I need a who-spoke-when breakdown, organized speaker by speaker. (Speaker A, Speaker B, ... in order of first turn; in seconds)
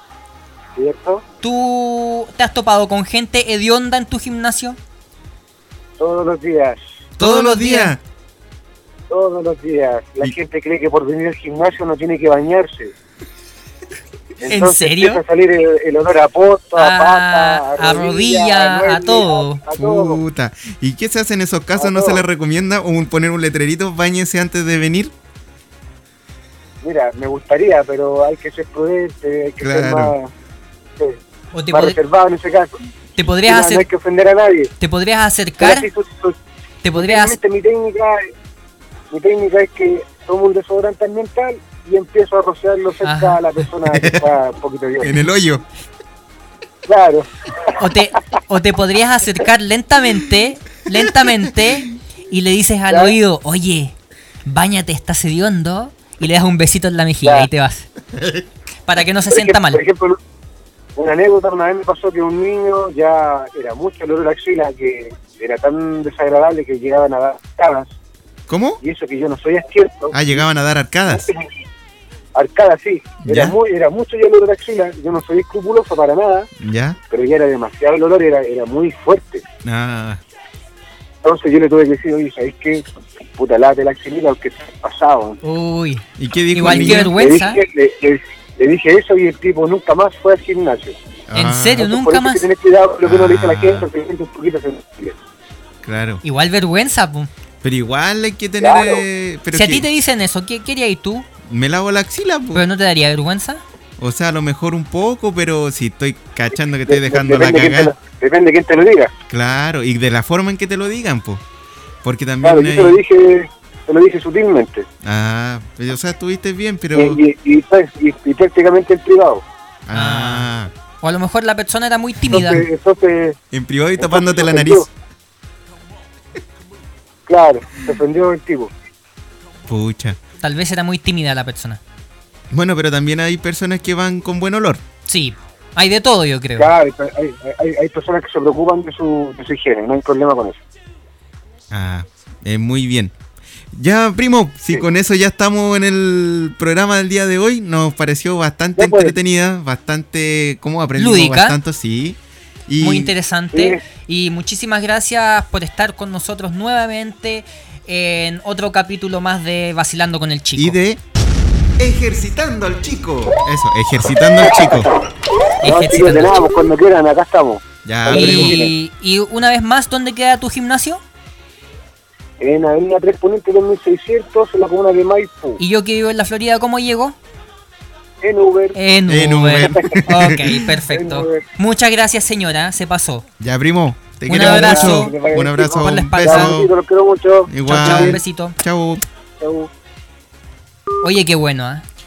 Speaker A: 0.8-1.2, 6.0-6.8, 9.1-12.9, 14.4-20.2, 21.8-22.2, 26.8-30.3, 31.7-32.7, 33.5-34.7, 35.6-36.4, 37.0-38.3, 39.1-45.2, 46.9-47.8, 57.2-57.5, 59.3-60.2, 61.0-67.9, 68.8-70.4, 71.1-71.5, 72.3-76.5, 77.1-79.4, 81.2-82.9, 83.4-85.4, 86.7-91.0, 91.8-95.2, 98.6-99.0, 106.9-109.1, 112.4-114.9, 117.0-119.4, 122.3-123.4, 124.0-124.9, 127.3-128.7, 136.6-140.6, 148.8-149.1, 153.5-153.8, 164.5-165.0, 165.6-168.7, 172.4-175.6, 178.2-178.8, 179.6-181.4, 184.3-188.2, 189.4-189.7
Speaker B: 1.4-4.8, 7.2-8.0, 14.5-15.2, 16.8-19.6, 31.5-32.0, 33.2-33.9, 34.8-35.9, 36.8-37.4, 43.0-43.4, 47.8-57.9, 58.9-59.8, 85.4-87.6, 91.3-92.5, 96.2-97.3, 99.5-101.3, 102.5-103.6, 119.9-120.5, 121.0-122.7, 130.4-131.8, 135.1-136.7, 151.0-151.6, 152.8-160.8, 165.6-166.4, 168.1-171.0, 175.6-177.2, 178.8-183.2, 184.3-186.6, 187.6-188.6, 191.0-191.8
Speaker C: 7.2-8.0, 19.7-25.1, 29.6-30.1, 43.9-44.3, 45.0-45.6, 58.1-58.5, 68.5-68.8, 70.1-71.3, 73.2-73.6, 76.6-77.0, 79.6-80.2, 86.2-87.2, 91.3-91.9, 93.0-93.9, 95.8-96.2, 97.6-99.9, 101.5-102.7, 104.0-107.9, 109.3-111.4, 112.0-113.0, 115.0-117.2, 119.9-120.7, 123.5-124.9, 129.7-130.2, 132.5-134.8, 141.7-143.2, 143.7-153.1, 160.6-161.0, 161.8-164.9, 167.8-168.7, 179.1-180.6, 183.4-186.7, 187.5-189.1